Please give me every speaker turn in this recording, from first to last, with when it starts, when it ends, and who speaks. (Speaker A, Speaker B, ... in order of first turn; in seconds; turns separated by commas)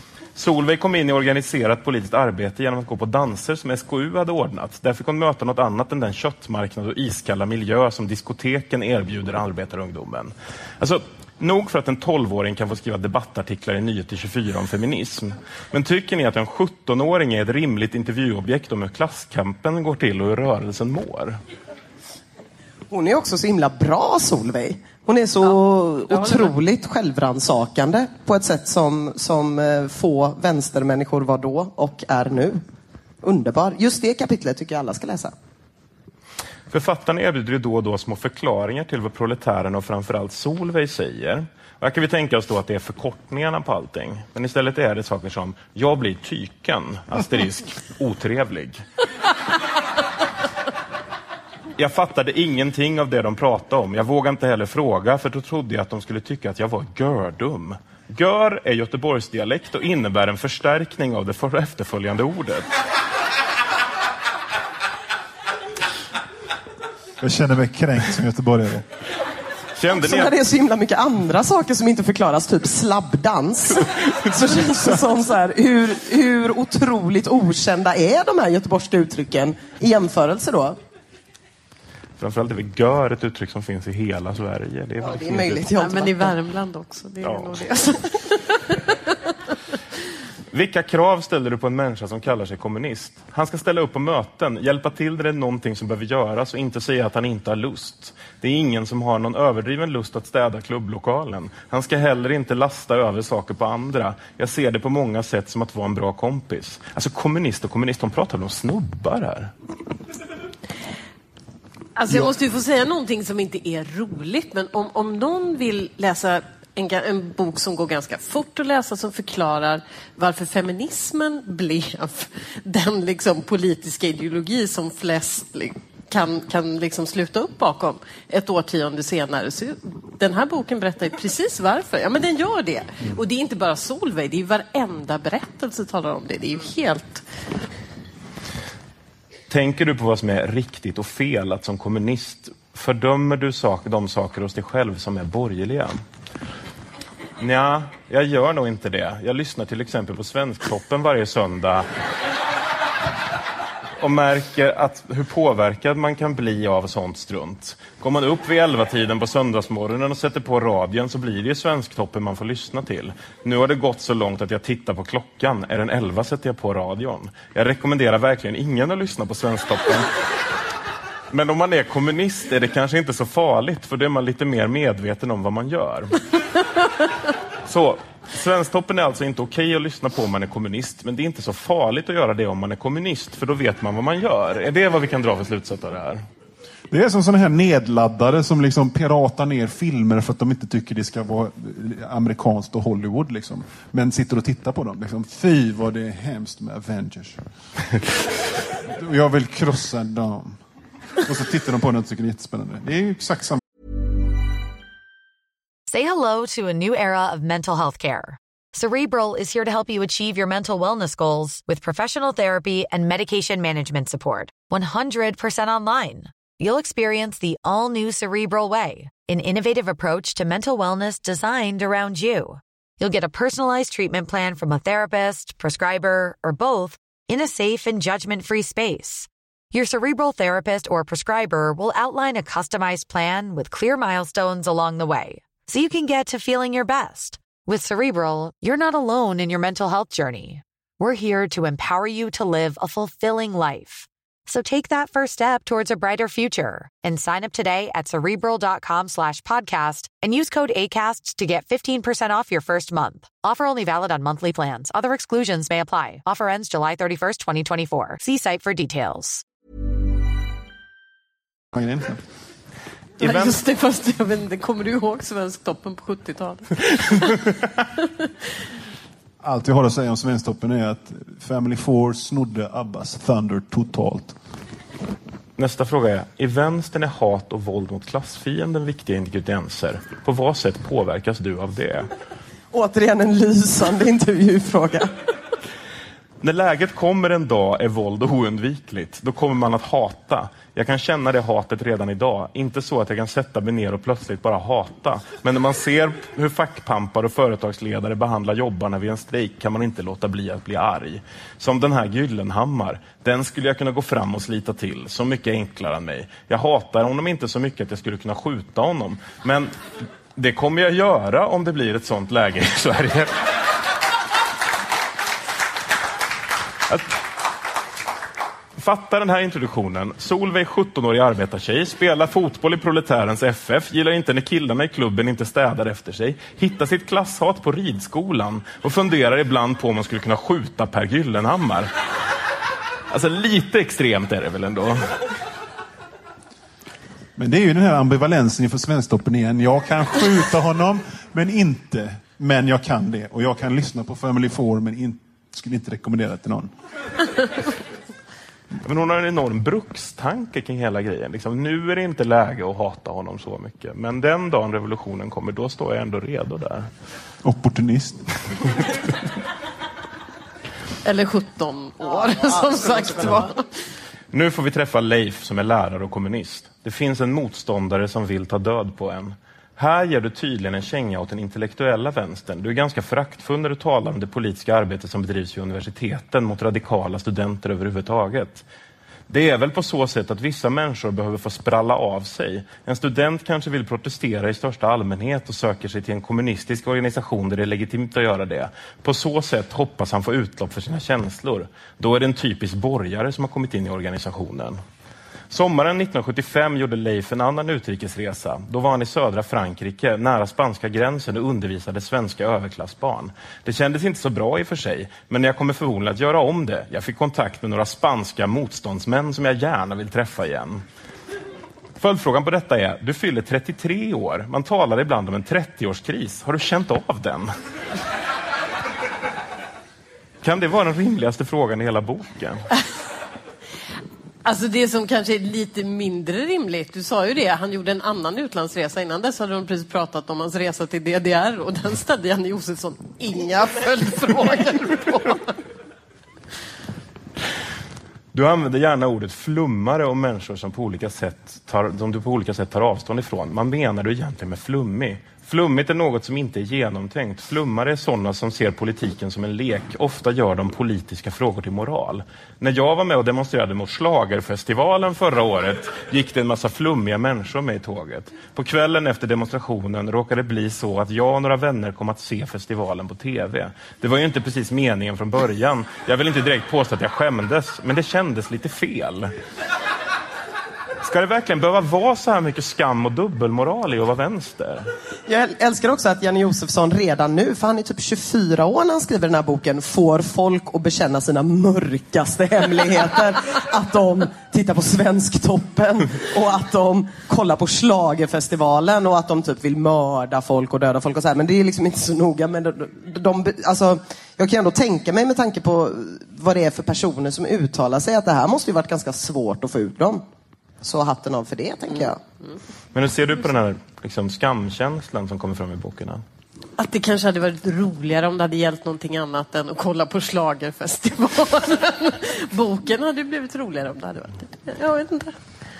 Speaker A: 0.3-21.4, Speaker B: 22.9-32.6, Speaker C: 26.1-26.5, Speaker B: 33.2-35.3, Speaker A: 36.7-48.8, Speaker A: 51.8-62.7, Speaker D: 67.2-68.8, Speaker A: 69.8-70.3, Speaker B: 69.9-80.8, Speaker A: 82.2-85.6, Speaker B: 85.0-86.3, Speaker C: 85.8-88.7, Speaker A: 87.2-87.6, Speaker A: 90.5-109.5, Speaker C: 112.0-137.2, Speaker A: 139.5-146.0, Speaker A: 147.4-151.9, Speaker A: 154.0-170.1, Speaker A: 171.3-176.2, Speaker A: 177.7-186.2, Speaker D: 186.9-197.4, Speaker D: 198.7-200.6, Speaker D: 201.2-203.6, Speaker E: 205.9-259.4, Speaker D: 261.7-262.2, Speaker C: 263.2-267.5, Speaker A: 263.2-263.5, Speaker D: 269.4-274.4, Speaker A: 275.6-282.1, Speaker B: 282.7-285.1, Speaker A: 286.4-309.7, Speaker A: 310.4-313.4, Speaker A: 316.9-317.2, Speaker A: 318.8-331.9, Speaker A: 333.1-335.1, Speaker D: 337.4-346.7, Speaker A: 348.8-356.9, Speaker D: 357.4-358.7, Speaker C: 361.0-363.7, Speaker A: 364.3-378.6, Speaker A: 379.3-394.8, Speaker A: 395.5-410.8, Speaker A: 412.0-417.5, Speaker A: 420.4-422.6, Speaker C: 424.4-435.6, Speaker A: 438.3-469.3, Speaker A: 471.0-474.8, Speaker B: 475.3-500.2, Speaker B: 500.8-502.2, Speaker A: 502.9-506.2, Speaker C: 506.8-515.3